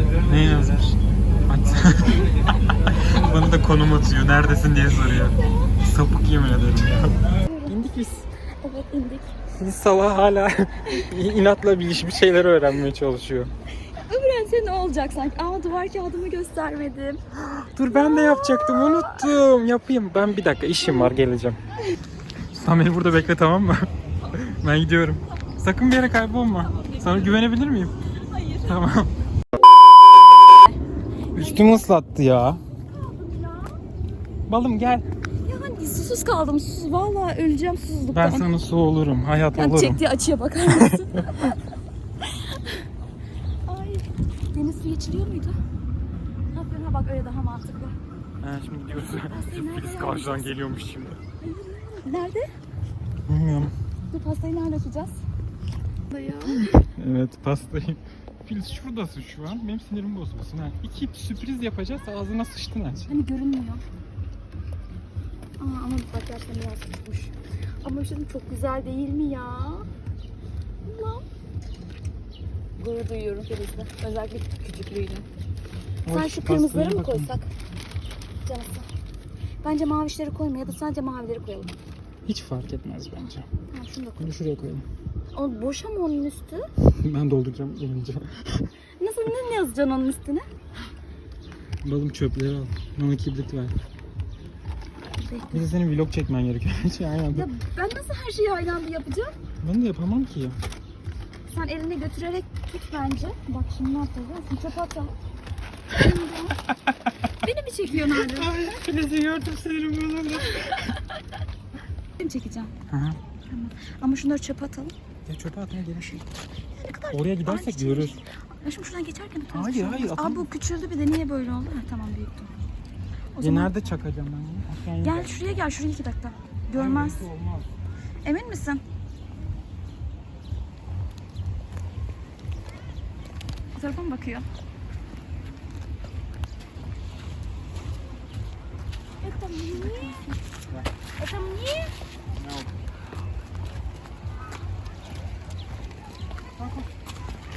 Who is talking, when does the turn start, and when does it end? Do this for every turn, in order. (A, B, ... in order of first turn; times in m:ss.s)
0:00.2-0:02.3 A
0:02.9-0:08.2 A
0:05.4-0:05.7 B
0:07.4-0:07.8 B
0:08.6-0:09.3 B
0:09.6-0:13.5 A
0:13.9-0:17.2 B
0:17.5-0:21.6 A
0:17.9-0:19.2 B
0:22.5-0:28.0 A
0:28.6-0:29.1 A
0:31.3-0:31.8 B
0:31.4-0:32.6 A
0:33.0-0:33.7 B
0:34.5-0:35.1 A
0:35.4-0:38.5 B
0:38.1-0:40.0 A
0:39.6-0:41.5 B
0:42.5-0:42.8 B
0:43.6-0:45.6 B
0:46.5-0:48.0 B
0:48.4-0:51.2 A
0:49.3-0:50.6 B
0:51.4-0:52.5 B
0:53.3-0:53.7 A
0:54.1-0:55.2 B
0:56.1-0:56.8 B
0:56.5-1:03.1 A
1:03.1-1:03.8 B
1:05.6-1:09.9 B
1:10.9-1:11.2 B
1:12.8-1:15.2 B
1:16.0-1:17.3 A
1:16.1-1:17.5 B
1:18.4-1:18.9 B
1:19.6-1:21.7 B
1:22.2-1:23.4 A
1:23.7-1:24.3 B
1:24.2-1:24.8 A
1:25.3-1:26.7 B
1:26.8-1:28.7 A
1:29.0-1:30.5 B
1:31.8-1:33.8 A
1:35.2-1:35.6 B
1:35.5-1:37.5 A
1:37.3-1:39.3 B
1:39.6-1:40.6 A
1:41.5-1:45.1 B
1:46.0-1:46.5 B
1:47.4-1:48.5 B
1:47.9-1:50.6 A
1:52.2-1:52.7 B
1:52.9-1:53.2 A
1:53.5-1:54.9 B
1:55.3-1:56.3 A
1:56.8-2:02.7 B
1:57.1-1:58.2 A
1:59.5-2:00.4 A
2:03.4-2:03.7 B
2:03.4-2:05.4 A
2:05.0-2:07.2 B
2:06.7-2:07.7 A
2:08.2-2:08.8 B
2:13.8-2:14.4 B
2:19.2-2:20.3 B
2:21.2-2:21.9 B
2:22.4-2:22.7 A
2:26.6-2:26.9 A